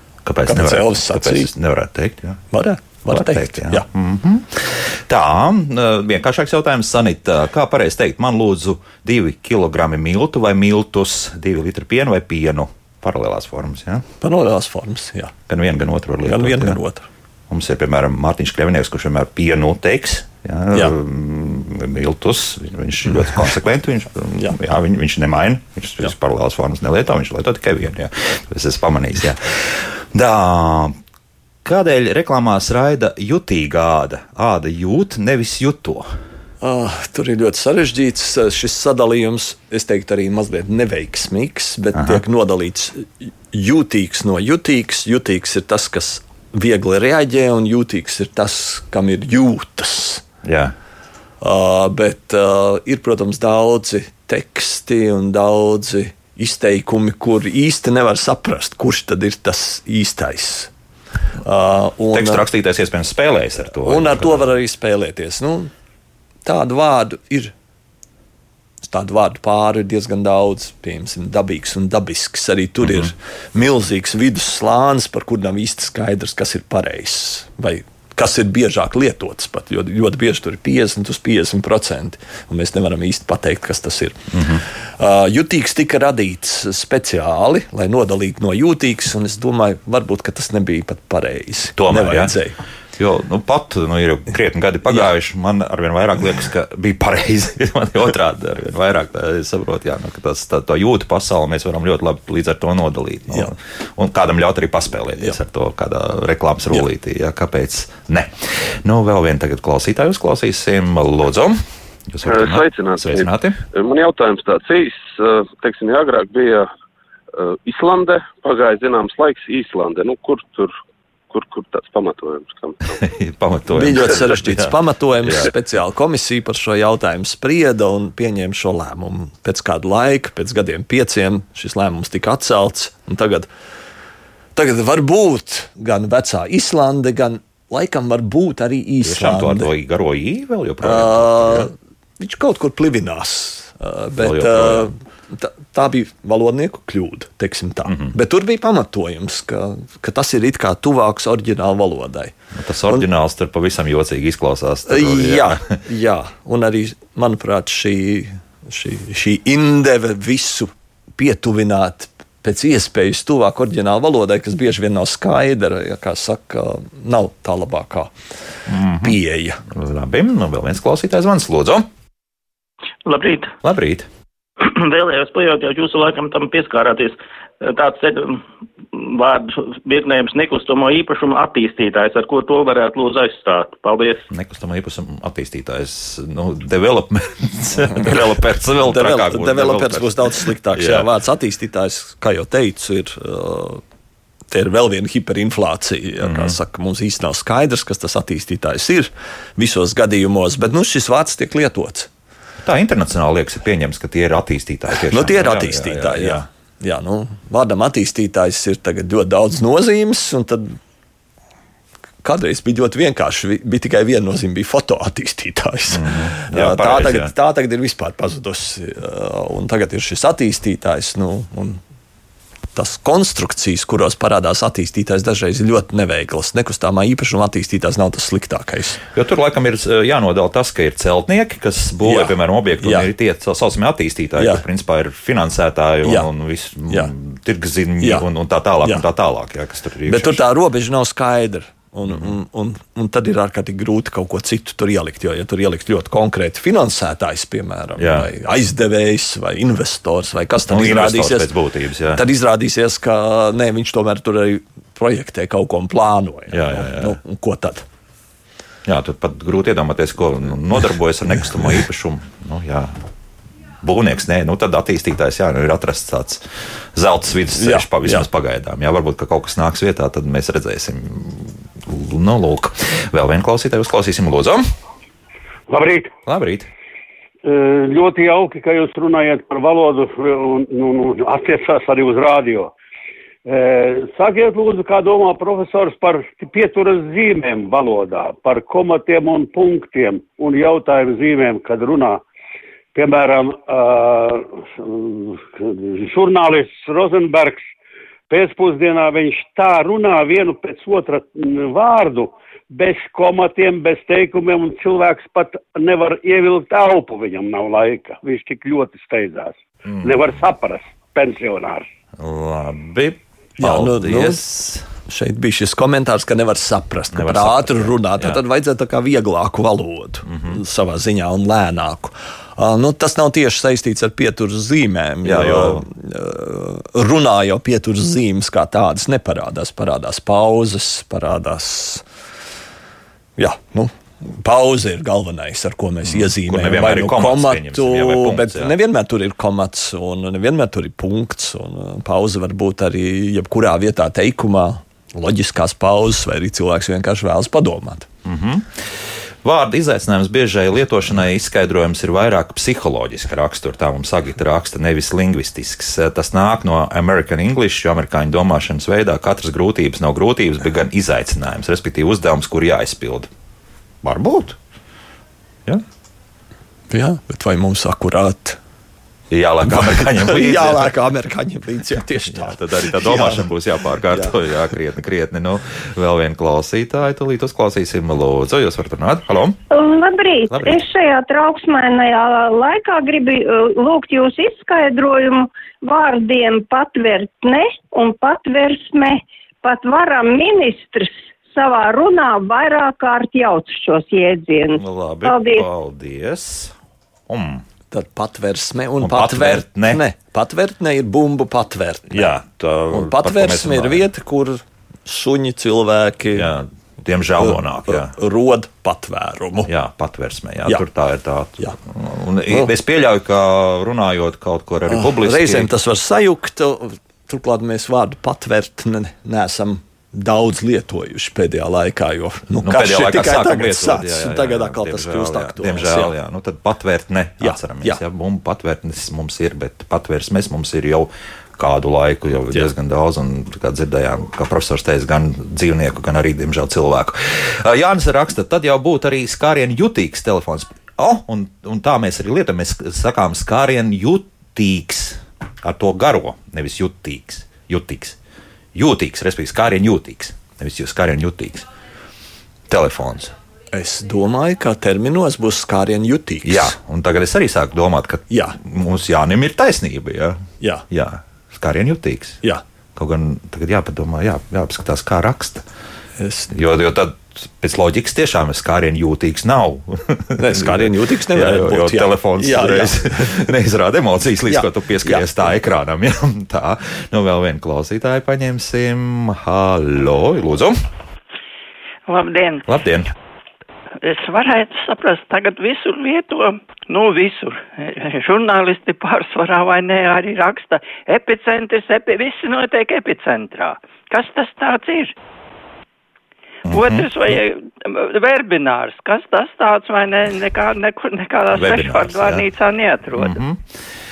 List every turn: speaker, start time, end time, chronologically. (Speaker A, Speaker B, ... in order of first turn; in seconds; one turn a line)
Speaker A: 0.2-2.4
Speaker B: 0.5-1.5
Speaker B: 2.5-3.9
Speaker A: 3.1-14.1
Speaker B: 14.2-15.3
Speaker A: 15.5-16.8
Speaker B: 16.2-17.0
Speaker A: 17.5-30.9
Speaker A: 31.6-36.1
Speaker B: 36.6-50.2
Speaker A: 41.9-42.2
Speaker A: 50.4-50.7
Speaker B: 51.4-60.7
Speaker B: 61.4-62.4
Speaker A: 62.1-64.5
Speaker B: 63.8-65.7
Speaker B: 66.4-67.5
Speaker B: 68.8-84.2
Speaker A: 72.8-73.1
Speaker A: 84.3-84.6
Speaker B: 85.0-92.6
Speaker A: 91.8-92.4
Speaker A: 93.0-113.6
Speaker C: 112.2-116.7
Speaker C: 117.3-120.7
Speaker C: 121.3-122.9
Speaker A: 123.0-125.5
Speaker B: 123.7-133.5
Speaker B: 134.5-139.7
Speaker A: 139.0-141.7
Speaker B: 140.8-152.3
Speaker A: 144.2-144.9
Speaker A: 147.8-148.1
Speaker A: 152.5-155.7
Speaker B: 154.9-168.1
Speaker A: 168.7-169.2
Speaker B: 168.8-169.6
Speaker A: 169.7-171.9
Speaker D: 173.1-173.5
Speaker A: 173.6-174.1
Speaker D: 174.6-178.4
Speaker D: 178.9-184.2
Speaker A: 184.3-191.1
Speaker B: 187.9-193.8
Speaker B: 194.5-202.1
Speaker A: 196.2-196.5
Speaker A: 202.6-206.4
Speaker B: 204.9-210.8
Speaker B: 212.2-221.8
Speaker A: 215.9-217.3
Speaker B: 222.7-229.0
Speaker A: 229.1-240.4
Speaker B: 232.0-233.1
Speaker B: 234.4-234.6
Speaker B: 240.1-251.5
Speaker A: 248.0-248.3
Speaker A: 250.7-252.2
Speaker B: 252.1-257.8
Speaker A: 256.5-257.2
Speaker A: 258.9-262.9
Speaker A: 263.8-274.6
Speaker B: 267.6-268.2
Speaker E: 275.7-276.1
Speaker A: 276.2-276.7
Speaker E: 277.4-282.7
Speaker E: 283.4-292.2
Speaker E: 292.9-297.7
Speaker E: 298.3-311.9
Speaker A: 309.9-310.4
Speaker A: 312.2-314.9
Speaker B: 313.6-314.4
Speaker B: 315.1-332.0
Speaker A: 317.1-318.4
Speaker A: 320.2-320.6
Speaker A: 325.2-325.9
Speaker B: 333.4-348.1
Speaker A: 336.0-338.8
Speaker A: 348.2-363.3
Speaker A: 364.0-364.6
Speaker B: 366.9-368.6
Speaker A: 369.3-370.9
Speaker B: 369.6-373.5
Speaker A: 372.3-379.6
Speaker B: 374.1-374.4
Speaker F: 379.7-395.6
Speaker A: 380.5-380.8
Speaker A: 394.8-396.7
Speaker A: 397.3-397.6
Speaker B: 397.9-406.5
Speaker A: 399.0-400.0
Speaker A: 402.1-404.1
Speaker A: 406.3-408.1
Speaker B: 407.4-409.7
Speaker A: 409.7-415.7
Speaker B: 414.9-426.1
Speaker A: 422.6-448.2
Speaker B: 427.4-428.0
Speaker A: 448.7-451.7
Speaker A: 452.7-453.3
Speaker B: 453.7-456.8
Speaker A: 456.4-462.4
Speaker B: 458.3-458.6
Speaker A: 462.9-465.6
Speaker B: 466.2-466.5
Speaker A: 466.5-480.8
Speaker B: 470.4-473.5
Speaker B: 474.5-475.5
Speaker G: 482.1-482.6
Speaker A: 482.7-483.1
Speaker G: 484.0-495.1
Speaker A: 496.7-497.1
Speaker G: 496.7-503.4
Speaker A: 501.5-502.4
Speaker A: 503.2-503.7